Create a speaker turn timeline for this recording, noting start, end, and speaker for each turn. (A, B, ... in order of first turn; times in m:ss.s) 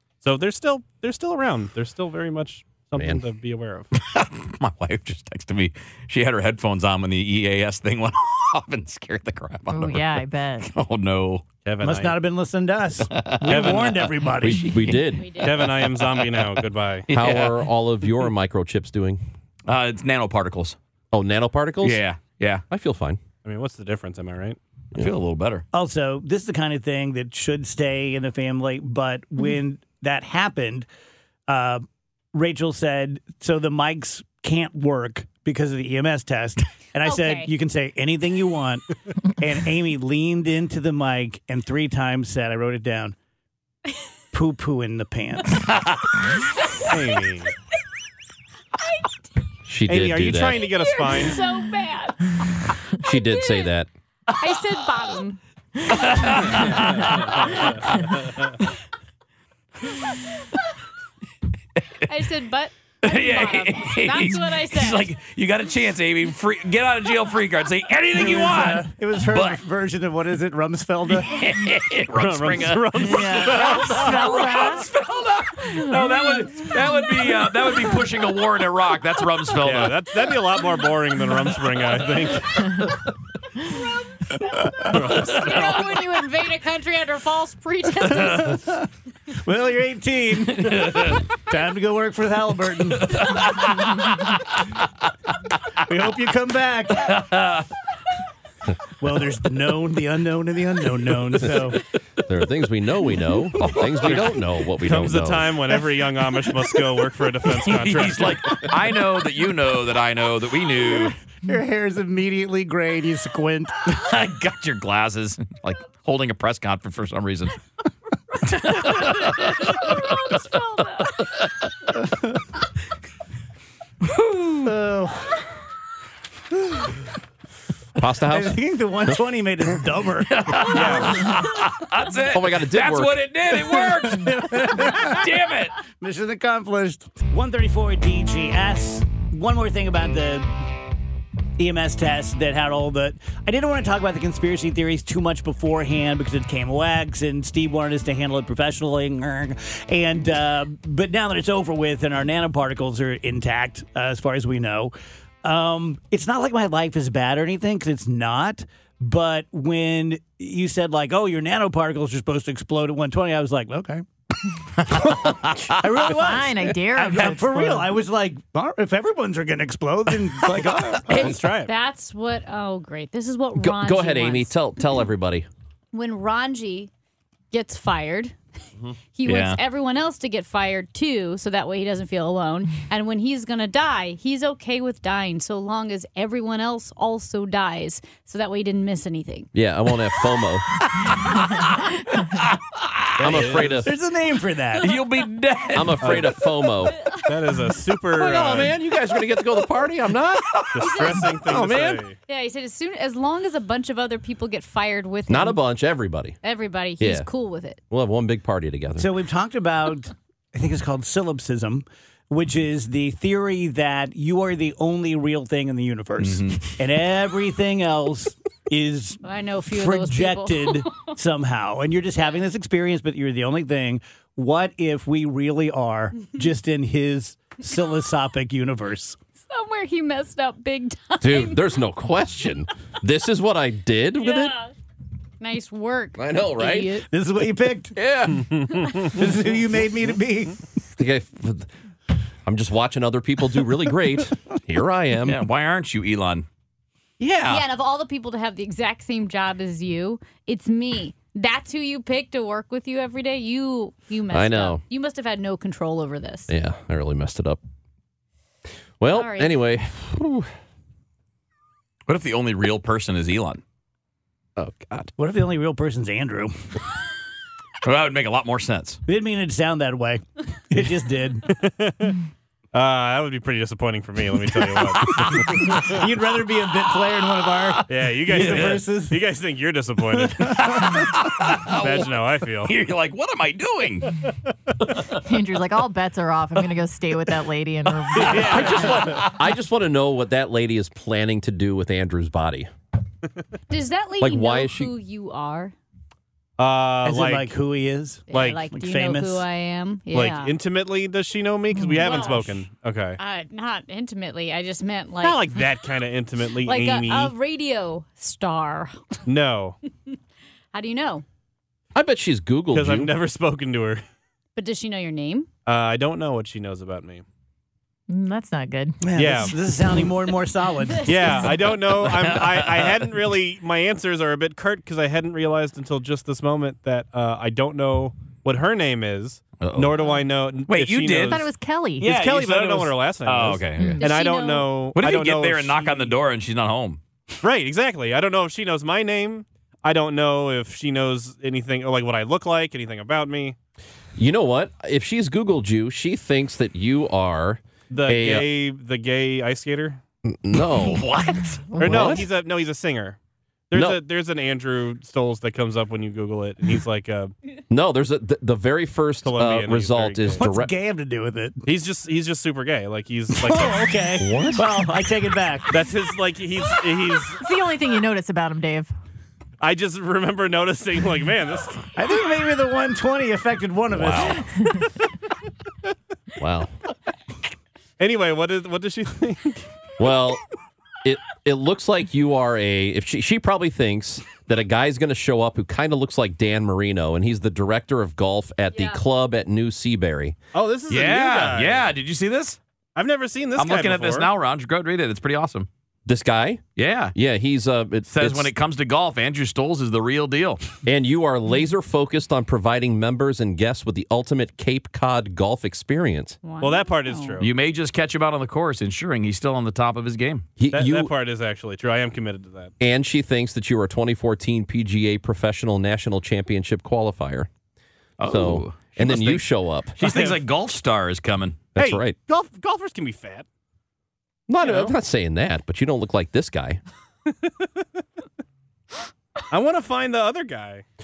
0:00.2-0:03.9 A
0:02.9-0:03.2 B
0:04.0-0:11.4 C
0:09.7-0:10.7 D
0:11.6-0:12.2 A
0:11.8-0:14.7 E
0:13.1-0:13.9 C
0:13.5-0:14.1 A
0:14.4-0:15.4 B
0:15.1-0:15.5 F
0:15.4-0:17.1 A
0:17.1-0:17.6 C
0:17.1-0:19.2 B
0:19.7-0:20.8 C
0:21.1-0:22.0 B
0:21.8-0:22.6 C
0:22.7-0:23.2 B
0:23.4-0:24.6 A
0:24.9-0:25.6 C
0:25.7-0:30.9 E
0:31.5-0:43.1 E
0:37.0-0:37.5 F
0:44.3-0:45.6 E
0:46.9-0:47.5 A
0:49.6-0:50.6 B
0:49.9-0:51.4 A
0:50.7-0:52.2 F
0:53.0-0:53.7 F
0:53.0-0:53.9 B
0:54.4-0:55.4 F
0:55.9-0:58.3 C
1:02.1-1:05.1 F
1:03.0-1:09.6 C
1:08.2-1:11.3 E
1:11.1-1:20.1 C
1:12.1-1:14.3 A
1:13.0-1:14.8 D
1:19.6-1:22.7 A
1:24.9-1:25.9 A
1:24.9-1:25.3 C
1:25.3-1:28.5 F
1:28.2-1:33.2 E
1:30.6-1:31.2 C
1:33.1-1:34.2 C
1:35.9-1:37.2 E
1:37.1-1:37.6 C
1:39.0-1:41.8 E
1:42.2-1:45.5 B
1:43.6-1:44.4 C
1:44.8-1:48.6 A
1:47.6-1:51.1 C
1:50.9-1:53.8 E
1:53.8-1:57.5 C
1:58.5-2:00.0 C
1:58.7-2:01.2 F
2:04.0-2:04.7 C
2:04.6-2:05.4 E
2:08.0-2:09.2 B
2:08.3-2:11.1 E
2:10.3-2:15.8 C
2:10.6-2:11.2 A
2:12.3-2:13.2 B
2:13.6-2:15.2 E
2:15.9-2:20.5 E
2:21.6-2:44.0 E
2:44.9-2:51.4 E
2:46.1-2:47.9 D
2:51.1-2:51.7 A
2:51.6-2:54.5 F
2:53.6-2:55.5 B
2:55.9-2:56.9 F
2:57.5-2:58.3 F
2:59.1-3:09.5 F
2:59.2-2:59.6 C
3:09.5-3:10.7 B
3:12.4-3:13.4 C
3:13.2-3:13.9 B
3:13.2-3:13.8 A
3:13.3-3:15.0 E
3:14.8-3:16.3 C
3:15.7-3:17.0 B
3:16.0-3:16.3 A
3:17.2-3:18.8 A
3:18.1-3:22.0 B
3:20.7-3:22.2 A
3:20.8-3:21.2 F
3:22.3-3:25.6 F
3:25.3-3:26.4 B
3:26.4-3:27.8 F
3:27.0-3:27.3 B
3:27.9-3:29.1 B
3:29.0-3:49.2 E
3:36.2-3:36.7 C
3:39.2-3:41.1 F
3:49.5-3:51.7 F
3:51.2-3:54.6 B
3:54.2-3:54.7 F
3:55.4-3:57.1 F
3:56.2-3:57.0 B
3:57.1-3:58.0 E
3:57.9-3:59.0 B
3:59.0-4:00.6 E
4:01.0-4:01.7 B
4:02.4-4:05.4 B
4:05.2-4:06.4 C
4:07.2-4:07.6 B
4:07.5-4:16.5 F
4:14.3-4:14.8 B
4:16.5-4:17.6 B
4:19.0-4:20.5 B
4:19.1-4:19.6 F
4:22.1-4:23.6 C
4:24.6-4:25.1 B
4:25.2-4:26.5 E
4:27.8-4:29.0 C
4:29.1-4:31.5 E
4:31.6-4:32.2 A
4:32.7-4:36.0 A
4:35.4-4:39.2 E
4:37.9-4:40.8 A
4:38.3-4:38.8 C
4:40.2-4:40.9 E
4:40.5-4:44.2 C
4:41.7-4:42.7 A
4:45.1-4:48.9 D
4:48.2-4:49.1 A
4:48.3-4:52.7 B
4:49.1-4:49.3 C
4:53.7-4:55.7 F
4:54.2-4:54.9 B
4:56.6-4:57.5 A
4:57.0-4:59.4 E
4:58.3-5:00.5 F
4:58.3-4:58.6 A
5:00.1-5:03.2 A
5:02.0-5:02.4 F
5:03.2-5:05.4 F
5:05.2-5:07.3 A
5:06.6-5:09.2 F
5:09.2-5:09.8 A
5:10.7-5:11.2 F
5:11.9-5:13.1 B
5:12.7-5:14.0 A
5:14.6-5:15.5 F
5:15.6-5:17.2 A
5:18.1-5:19.0 D
5:19.0-5:21.4 E
5:19.1-5:19.6 A
5:21.0-5:36.1 A
5:22.0-5:23.0 C
5:29.6-5:30.0 C
5:30.7-5:31.4 C
5:31.3-5:32.1 D
5:32.0-5:34.0 C
5:33.8-5:34.0 D
5:34.0-5:34.7 F
5:34.9-5:37.0 C
5:37.4-5:43.6 A
5:44.2-5:48.5 B
5:47.9-5:50.0 A
5:50.2-5:51.0 B
5:50.7-5:51.6 C
5:51.7-5:52.2 D
5:51.8-5:53.2 A
5:51.8-5:52.2 B
5:53.7-5:57.3 A
5:53.7-5:54.0 B
5:57.7-6:00.7 B
5:59.2-6:00.4 A
6:00.4-6:01.6 E
6:01.6-6:04.1 A
6:03.3-6:05.8 E
6:04.2-6:04.6 B
6:05.7-6:07.4 A
6:07.4-6:08.9 D
6:09.6-6:11.9 A
6:12.0-6:14.4 E
6:13.9-6:14.4 B
6:16.4-6:16.7 B
6:18.0-6:19.7 A
6:20.0-6:20.4 B
6:21.0-6:30.4 B
6:28.7-6:29.0 F
6:30.5-6:31.9 A
6:30.9-6:32.6 C
6:33.0-6:34.3 A
6:33.6-6:35.7 C
6:36.0-6:36.6 B
6:36.8-6:37.1 C
6:37.1-6:38.5 B
6:38.1-6:40.6 C
6:40.8-6:46.4 B
6:46.4-6:47.4 F
6:46.6-6:47.5 A
6:47.4-6:50.5 C
6:50.6-6:51.1 B
6:50.7-6:52.7 A
6:52.8-6:57.5 B
6:58.2-6:59.4 C
6:58.2-7:00.0 B
7:00.0-7:01.7 C
7:00.0-7:00.4 A
7:01.8-7:02.2 B
7:01.8-7:03.4 A
7:04.5-7:06.8 B
7:04.6-7:04.9 A
7:07.3-7:07.7 A
7:09.5-7:10.8 A